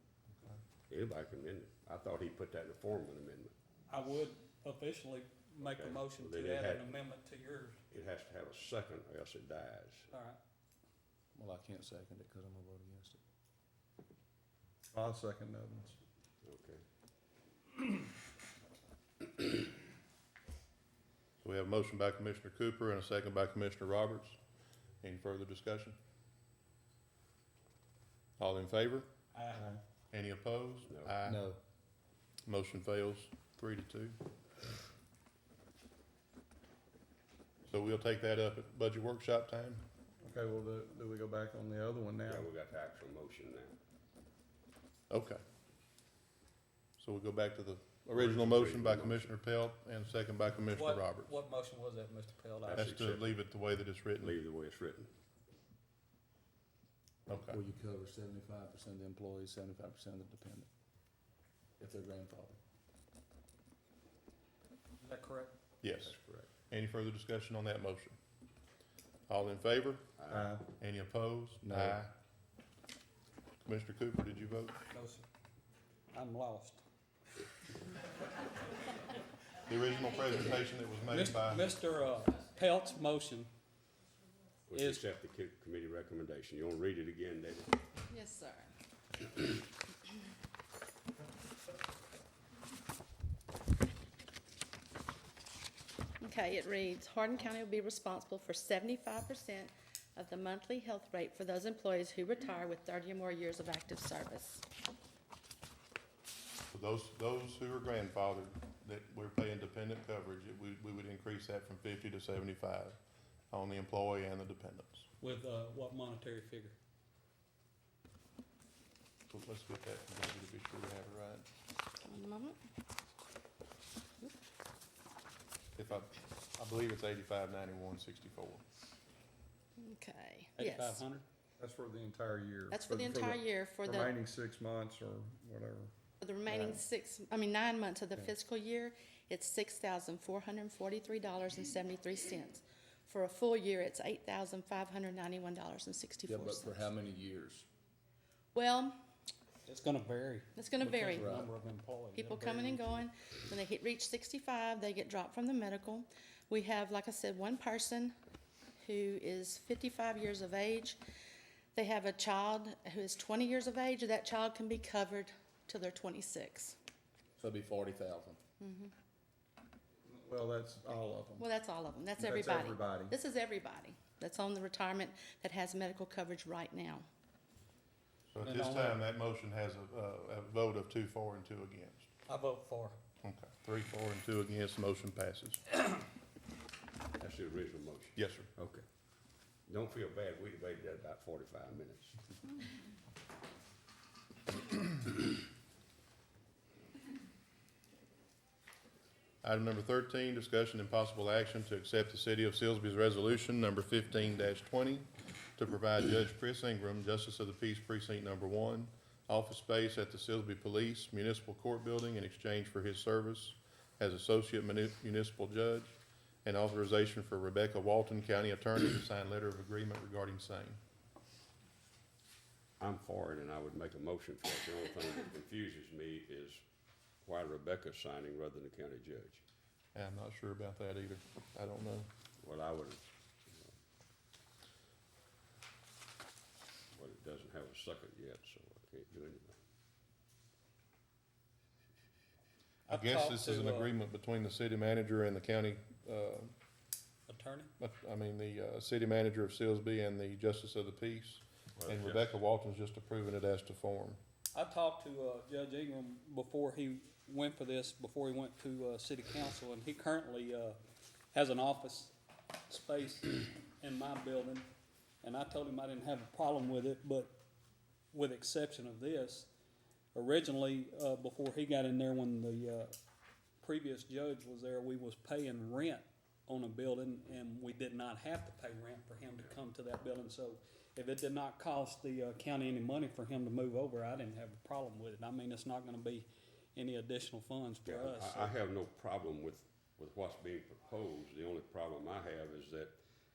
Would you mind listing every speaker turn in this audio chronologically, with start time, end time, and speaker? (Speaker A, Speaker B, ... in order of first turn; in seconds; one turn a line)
Speaker A: 0.9-3.5
Speaker B: 3.9-7.8
Speaker A: 5.6-7.0
Speaker A: 7.9-10.1
Speaker B: 10.1-10.4
Speaker C: 11.3-13.2
Speaker D: 14.9-16.0
Speaker A: 16.4-16.8
Speaker E: 21.4-24.4
Speaker E: 25.0-26.0
Speaker E: 28.4-29.1
Speaker B: 29.3-29.7
Speaker C: 29.6-29.8
Speaker E: 30.1-31.5
Speaker A: 30.9-31.1
Speaker C: 31.2-31.6
Speaker E: 32.5-34.2
Speaker E: 37.7-39.8
Speaker D: 40.2-42.5
Speaker A: 42.3-43.8
Speaker E: 45.1-45.4
Speaker E: 47.0-51.3
Speaker A: 48.1-49.4
Speaker B: 50.7-52.8
Speaker A: 52.7-53.4
Speaker E: 52.7-54.4
Speaker A: 54.2-55.1
Speaker E: 57.3-57.6
Speaker C: 57.3-60.7
Speaker C: 61.8-62.6
Speaker B: 65.0-65.5
Speaker E: 65.8-66.2
Speaker E: 66.7-68.2
Speaker E: 69.3-70.1
Speaker A: 70.2-70.5
Speaker E: 70.8-72.1
Speaker C: 71.6-72.0
Speaker E: 73.7-74.8
Speaker B: 74.9-75.2
Speaker B: 76.1-76.8
Speaker E: 79.7-81.7
Speaker B: 81.1-83.5
Speaker A: 84.7-87.8
Speaker B: 84.8-85.0
Speaker F: 88.1-88.7
Speaker F: 96.2-104.6
Speaker E: 106.7-113.0
Speaker E: 113.5-115.1
Speaker B: 115.2-116.8
Speaker E: 119.3-121.5
Speaker F: 122.0-122.6
Speaker E: 125.8-128.6
Speaker F: 129.8-131.0
Speaker B: 130.6-131.2
Speaker D: 131.6-135.9
Speaker F: 132.7-134.1
Speaker F: 136.2-146.9
Speaker C: 146.3-147.7
Speaker F: 148.5-149.0
Speaker B: 149.7-153.1
Speaker F: 150.6-151.4
Speaker C: 151.1-151.5
Speaker F: 152.1-158.1
Speaker F: 158.8-161.0
Speaker F: 161.8-166.8
Speaker C: 167.4-168.4
Speaker F: 168.6-168.9
Speaker D: 170.1-171.5
Speaker F: 171.4-177.1
Speaker D: 172.2-173.2
Speaker E: 178.3-182.1
Speaker B: 178.4-179.0
Speaker B: 182.3-183.0
Speaker E: 183.2-185.6
Speaker A: 187.2-188.8
Speaker E: 188.2-188.5
Speaker A: 189.7-192.2
Speaker E: 199.4-220.8
Speaker A: 222.8-226.6
Speaker A: 227.2-229.4
Speaker E: 229.9-232.1
Speaker A: 232.4-233.7
Speaker A: 237.0-239.6
Speaker B: 242.9-243.9
Speaker E: 242.9-246.5
Speaker B: 247.3-247.7
Speaker E: 247.8-254.2
Speaker A: 251.8-252.4
Speaker B: 254.5-260.8
Speaker B: 261.3-262.1
Speaker B: 262.7-264.7
Speaker B: 265.2-267.4
Speaker B: 268.1-269.5
Speaker B: 270.1-272.9
Speaker B: 273.6-288.5
Speaker A: 287.9-293.0